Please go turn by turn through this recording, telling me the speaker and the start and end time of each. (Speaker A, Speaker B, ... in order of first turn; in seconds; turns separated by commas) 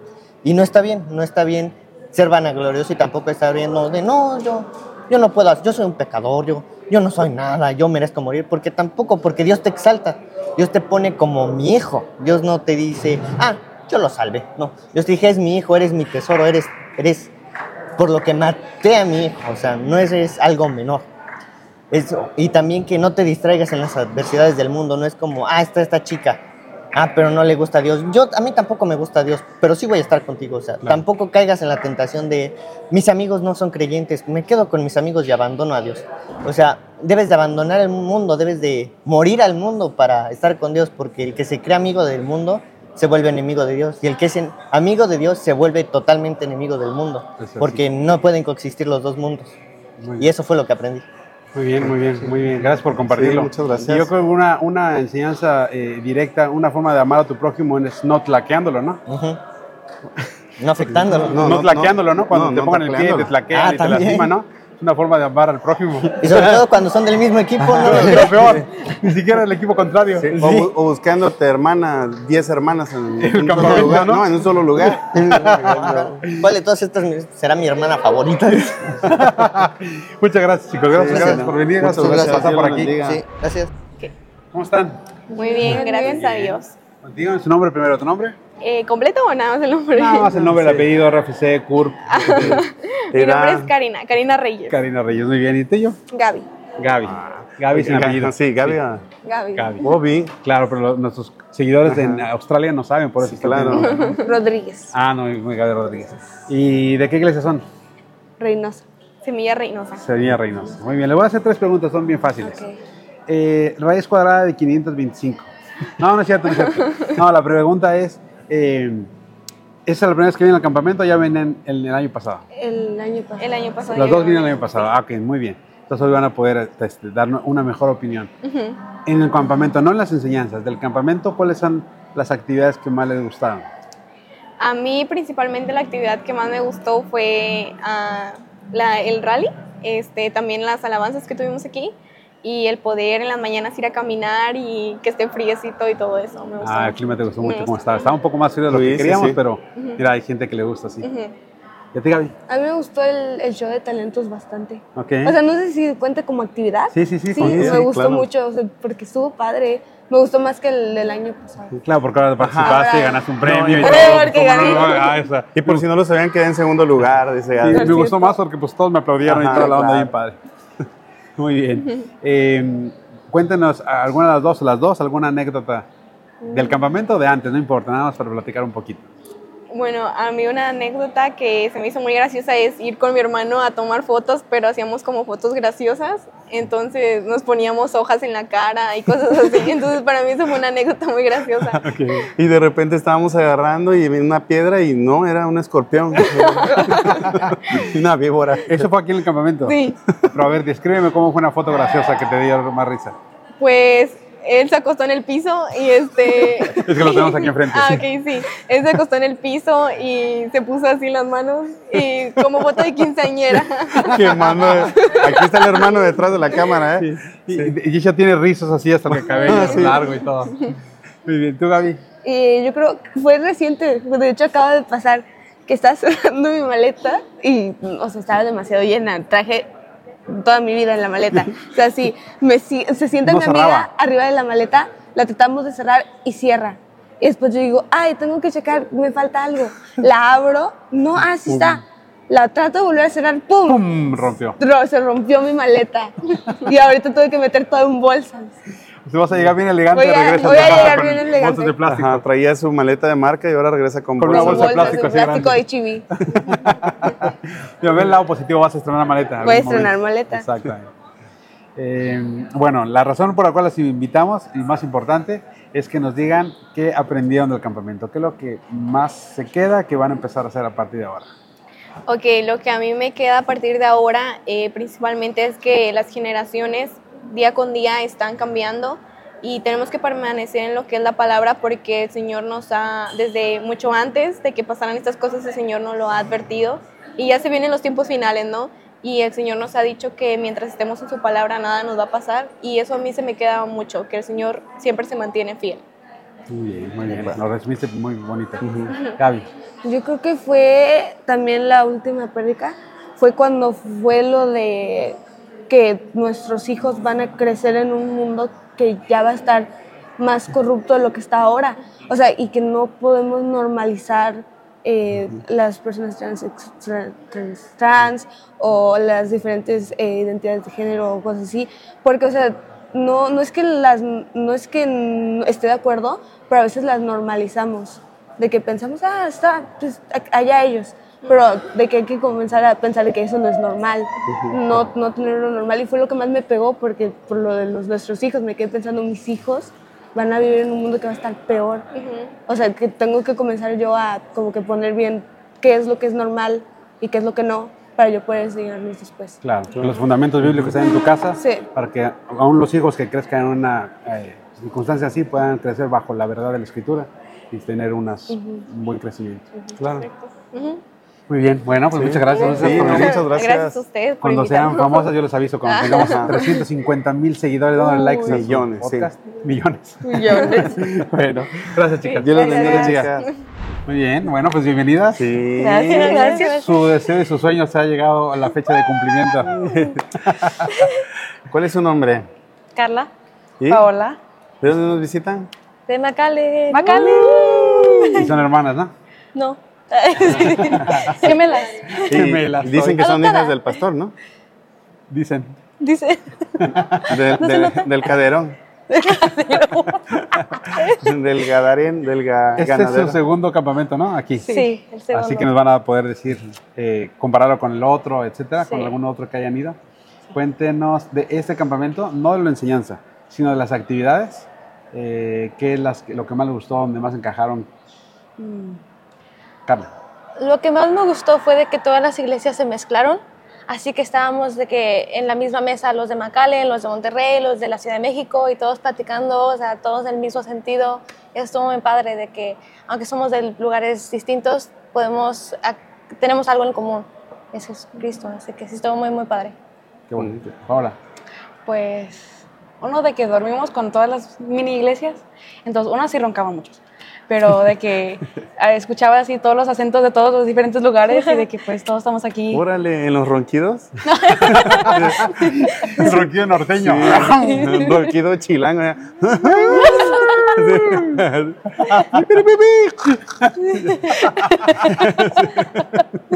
Speaker A: 0.4-17.3, Speaker A: 18.0-21.1, Speaker A: 21.9-26.4, Speaker A: 26.9-49.5, Speaker B: 47.4-47.8, Speaker B: 50.0-50.3, Speaker A: 50.2-51.0, Speaker B: 51.5-59.0, Speaker C: 53.1-54.1, Speaker A: 59.1-59.4, Speaker A: 60.6-61.5, Speaker C: 61.3-63.4, Speaker B: 61.4-66.6, Speaker A: 63.5-64.3, Speaker A: 66.2-68.3, Speaker B: 67.6-70.7, Speaker C: 70.2-76.2, Speaker B: 73.2-74.4, Speaker B: 75.1-75.8, Speaker A: 75.6-79.0, Speaker B: 79.0-83.0, Speaker C: 80.9-83.2, Speaker A: 81.1-83.7, Speaker B: 84.5-85.0, Speaker D: 85.3-86.7, Speaker E: 85.4-86.1, Speaker B: 85.7-88.4, Speaker D: 88.6-90.5, Speaker B: 90.0-92.6, Speaker C: 90.5-90.8, Speaker D: 92.1-94.7, Speaker C: 93.1-93.7, Speaker B: 94.7-96.0, Speaker D: 96.1-96.4, Speaker B: 96.8-98.8, Speaker C: 97.2-99.0, Speaker E: 99.3-99.7, Speaker B: 99.6-104.2, Speaker C: 99.8-100.3, Speaker C: 101.9-102.2, Speaker C: 103.2-104.0, Speaker E: 104.2-104.9, Speaker B: 104.9-107.7, Speaker E: 108.4-108.8, Speaker D: 109.2-110.0, Speaker B: 110.0-112.6, Speaker E: 112.4-112.7, Speaker B: 113.3-115.5, Speaker B: 116.0-119.1, Speaker B: 119.9-122.4, Speaker E: 122.5-123.7, Speaker D: 123.4-124.8, Speaker B: 124.0-128.3, Speaker D: 128.4-128.8, Speaker B: 129.1-133.7, Speaker D: 134.6-148.1, Speaker B: 146.6-151.1, Speaker C: 148.7-149.4, Speaker D: 151.0-151.3, Speaker B: 151.9-152.3, Speaker E: 152.5-161.8, Speaker B: 155.0-155.3, Speaker B: 156.9-157.8, Speaker C: 157.3-158.3, Speaker B: 161.8-165.8, Speaker C: 162.4-162.8, Speaker D: 162.7-163.2, Speaker C: 163.4-164.3, Speaker E: 163.8-165.2, Speaker C: 165.5-168.1, Speaker B: 167.6-170.4, Speaker C: 169.2-170.1, Speaker B: 171.4-175.9, Speaker B: 176.5-179.1, Speaker D: 179.7-191.8, Speaker B: 191.8-192.3, Speaker C: 192.4-198.7, Speaker B: 196.8-197.9, Speaker B: 198.6-203.2, Speaker D: 203.6-214.2, Speaker B: 206.7-208.1, Speaker B: 213.9-215.0, Speaker C: 214.1-217.7, Speaker B: 217.0-220.6, Speaker C: 219.4-220.1, Speaker B: 221.3-222.0, Speaker E: 222.2-229.7, Speaker E: 230.3-248.6, Speaker B: 233.3-233.9, Speaker B: 241.5-241.8, Speaker B: 243.7-244.6, Speaker B: 249.1-252.3, Speaker E: 249.9-251.8, Speaker C: 251.8-255.0, Speaker B: 254.2-255.7, Speaker E: 254.3-256.1, Speaker B: 256.2-260.9, Speaker E: 259.4-260.5, Speaker B: 261.8-271.3, Speaker D: 272.1-295.8, Speaker B: 296.5-299.5, Speaker C: 297.1-297.4, Speaker C: 298.6-298.9, Speaker E: 299.8-305.2, Speaker E: 305.7-341.9, Speaker D: 341.9-342.3, Speaker E: 342.5-349.4, Speaker B: 349.4-360.0, Speaker E: 351.4-351.7, Speaker E: 358.3-358.6, Speaker D: 360.5-360.8, Speaker B: 361.3-363.3, Speaker C: 361.9-363.8, Speaker E: 363.3-365.1, Speaker B: 364.2-373.1, Speaker E: 367.8-368.4, Speaker C: 368.2-369.1, Speaker E: 370.0-370.7, Speaker C: 372.2-373.3, Speaker E: 372.6-372.8, Speaker B: 373.9-379.6, Speaker C: 375.2-376.2, Speaker F: 375.6-376.6, Speaker E: 375.8-376.5, Speaker C: 379.6-380.0, Speaker B: 380.2-380.6, Speaker C: 381.5-382.3, Speaker F: 382.8-383.1, Speaker C: 383.6-383.9, Speaker G: 383.7-384.2, Speaker C: 384.6-385.5, Speaker F: 385.9-387.7, Speaker G: 386.7-387.6, Speaker E: 386.8-388.3, Speaker B: 388.1-388.9, Speaker F: 389.4-390.7, Speaker E: 390.1-391.0, Speaker B: 390.2-391.1, Speaker G: 391.3-391.7, Speaker B: 392.1-393.0, Speaker C: 392.1-394.1, Speaker E: 393.0-393.6, Speaker B: 395.1-395.6, Speaker E: 395.8-396.2, Speaker B: 396.6-397.2, Speaker C: 397.1-398.6, Speaker E: 397.4-397.9, Speaker E: 398.9-400.0, Speaker C: 400.9-403.2, Speaker B: 402.6-404.5, Speaker E: 404.5-405.5, Speaker B: 405.1-409.8, Speaker B: 410.3-417.7, Speaker F: 420.4-439.6, Speaker B: 440.1-440.9, Speaker G: 441.7-452.6, Speaker C: 452.5-453.9, Speaker B: 454.4-457.8, Speaker C: 454.8-455.3, Speaker C: 456.8-463.2, Speaker B: 461.9-462.1, Speaker B: 463.5-465.5, Speaker C: 464.9-465.3